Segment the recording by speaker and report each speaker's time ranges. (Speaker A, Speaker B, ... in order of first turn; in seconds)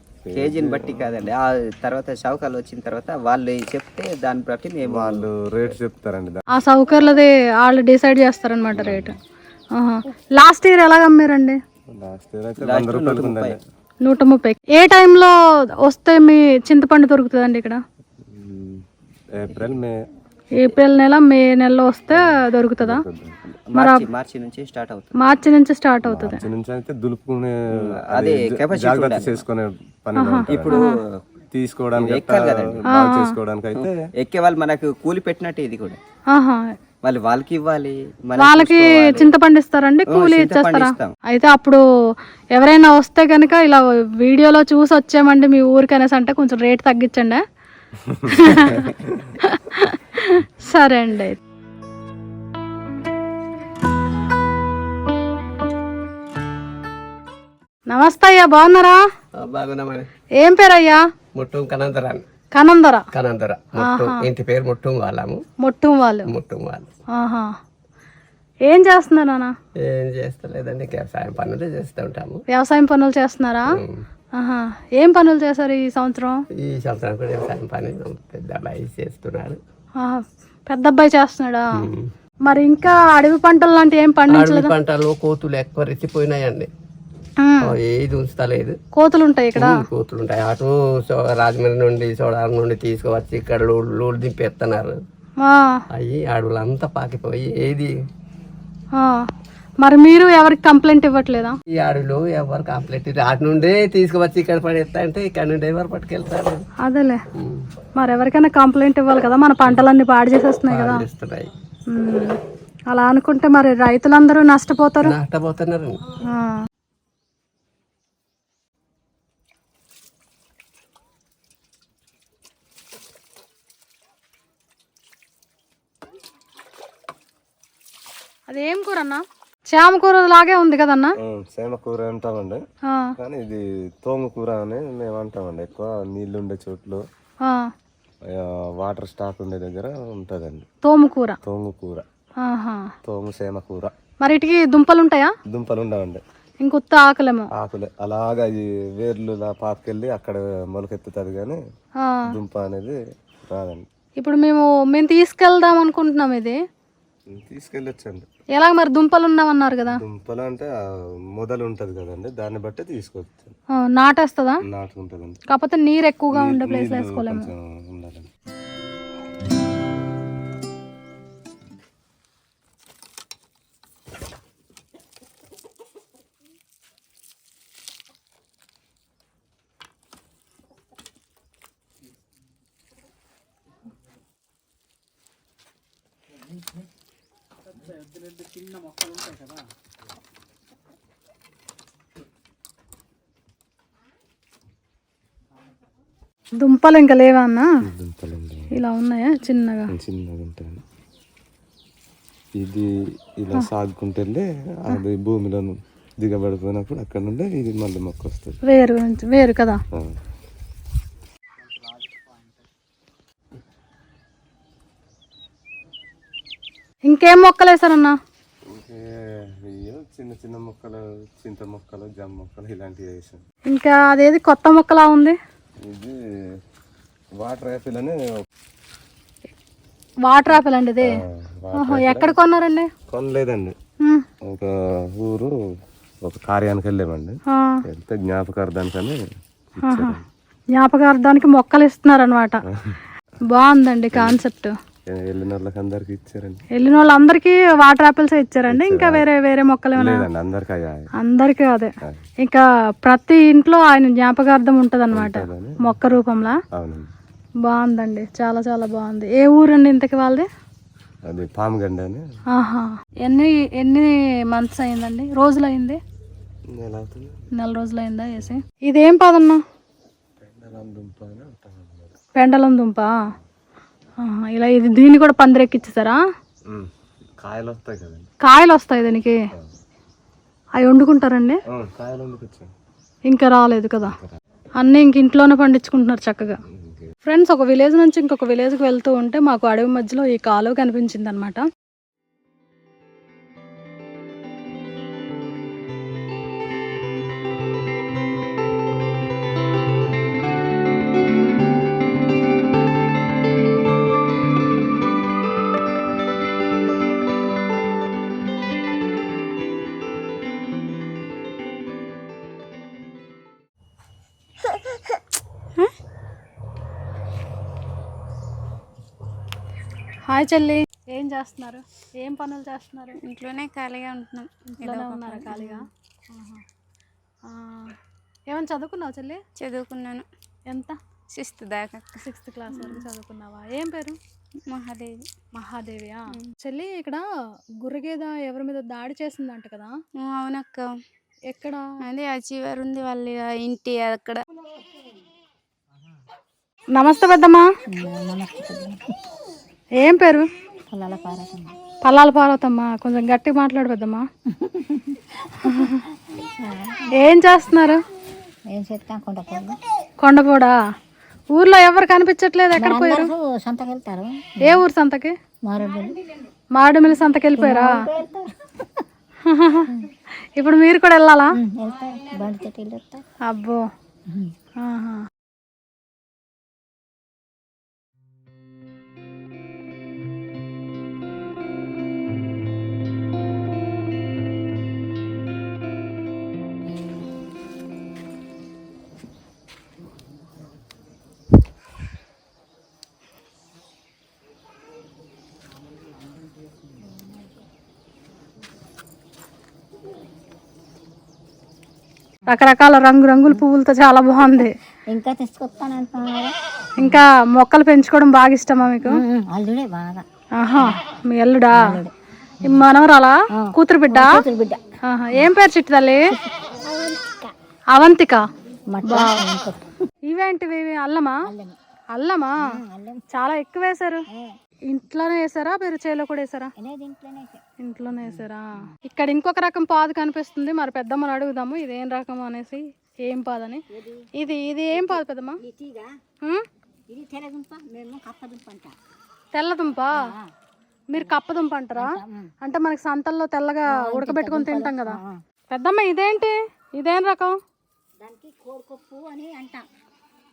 Speaker A: 0.2-1.3, 4.8-6.4, 8.7-9.2, 11.9-13.6, 18.2-18.8, 19.4-19.9, 22.1-23.5, 26.0-30.8, 31.5-34.1, 48.0-49.3, 131.2-132.6, 133.2-137.0, 138.3-140.7, 141.4-142.0, 143.0-143.9, 145.5-146.2, 147.6-151.6, 152.3-153.0, 153.5-153.8, 157.3-158.3, 159.9-160.7, 161.4-163.5, 164.7-165.4, 166.3-168.3, 197.8-198.7, 199.9-200.8, 202.6-202.9, 203.4-208.6, 218.7-223.4, 225.8-226.2, 227.4-228.2, 231.6-232.3, 233.1-233.7, 234.4-235.5, 236.2-239.2, 239.7-240.2, 242.7-243.0, 244.1-244.4, 245.1-246.6, 248.7-249.3, 249.9-251.1, 255.1-255.8, 256.7-257.1, 261.3-262.2, 266.7-267.4, 270.4-272.2, 277.4-278.3, 281.7-282.7, 284.1-284.3, 286.7-287.1
Speaker B: 0.3-5.3, 12.6-13.6, 23.8-25.1, 27.8-29.4, 30.5-30.9, 31.9-32.8, 33.8-36.0, 37.0-39.3, 40.1-41.1
Speaker C: 6.5-9.1, 9.7-11.6, 14.0-15.3, 15.8-17.8, 20.6-23.0, 23.8-24.0, 25.2-26.4, 30.2-30.8, 32.9-33.4, 36.3-36.7, 38.4-41.8, 42.5-47.4, 48.3-51.4, 57.9-59.0, 60.4-61.0, 62.5-63.0, 63.8-64.3, 65.6-66.3, 67.1-67.5, 68.7-69.5, 72.5-73.7, 74.4-76.4, 80.0-81.7, 82.4-84.7, 87.4-87.7, 89.0-89.8, 95.4-95.8, 99.0-99.2, 99.8-101.6, 106.8-107.2, 108.0-111.0, 111.9-112.4, 112.9-115.1, 116.3-116.5, 128.5-131.1, 137.4-137.7, 140.9-141.4, 142.4-142.9, 144.2-145.3, 146.6-147.5, 154.2-156.6, 158.6-160.0, 163.8-164.6, 165.5-167.5, 196.6-197.7, 198.8-199.9, 208.7-209.8, 217.1-218.2, 223.7-225.4, 230.3-231.1, 231.8-232.9, 239.8-240.1, 240.8-242.6, 243.5-244.7, 246.8-250.2, 251.2-251.9, 252.4-256.6, 257.6-260.5, 262.6-266.0, 267.6-269.6, 272.4-273.1, 274.2-276.2, 278.4-279.4, 280.8-281.6, 283.3-284.1, 284.8-286.6, 287.3-291.6, 320.3-323.2, 324.8-326.6, 327.5-327.9, 328.5-329.4, 330.7-331.0, 332.2-334.2, 335.5-337.2, 337.8-339.9, 341.5-341.8, 346.9-347.6, 350.0-350.4, 352.0-354.2, 355.6-356.0, 357.1-358.0, 360.2-360.8, 361.5-363.3, 364.6-365.3, 366.8-367.9, 369.4-369.9, 370.6-371.5, 373.5-373.8, 374.8-375.2, 402.5-404.7, 407.0-409.1, 410.6-411.8, 412.6-414.4, 415.1-416.3, 417.9-418.4, 419.0-419.4, 420.3-421.4, 422.1-422.6, 423.3-424.2, 424.9-426.7, 427.8-433.8, 434.4-435.6, 439.5-440.2, 441.1-442.1, 442.6-445.2, 445.7-447.6
Speaker D: 59.4-60.1, 61.3-62.2, 63.1-65.4, 66.3-66.9, 69.8-72.4, 76.6-79.6, 81.8-82.1, 84.3-86.7, 87.6-88.8, 89.5-95.0, 95.9-97.9, 101.8-106.7, 107.4-107.6, 110.7-111.5, 115.0-116.0
Speaker E: 323.2-325.8, 329.6-330.2, 331.3-332.2, 332.7-333.0, 334.6-335.2, 340.2-340.9, 342.0-344.4
Speaker F: 347.9-349.0, 350.9-351.8, 354.5-355.9, 356.6-357.1, 358.7-359.8, 362.8-364.8, 365.7-366.2, 367.5-369.0, 371.6-373.2, 397.0-397.6, 404.6-407.2, 409.1-410.2, 411.7-412.1, 413.6-414.8, 416.9-417.4, 418.9-419.9, 421.5-421.7, 422.8-423.2, 426.8-427.6, 428.2-428.9, 433.9-434.2, 434.9-436.1, 437.1-438.9, 441.9-442.5, 444.1-445.4, 448.2-449.8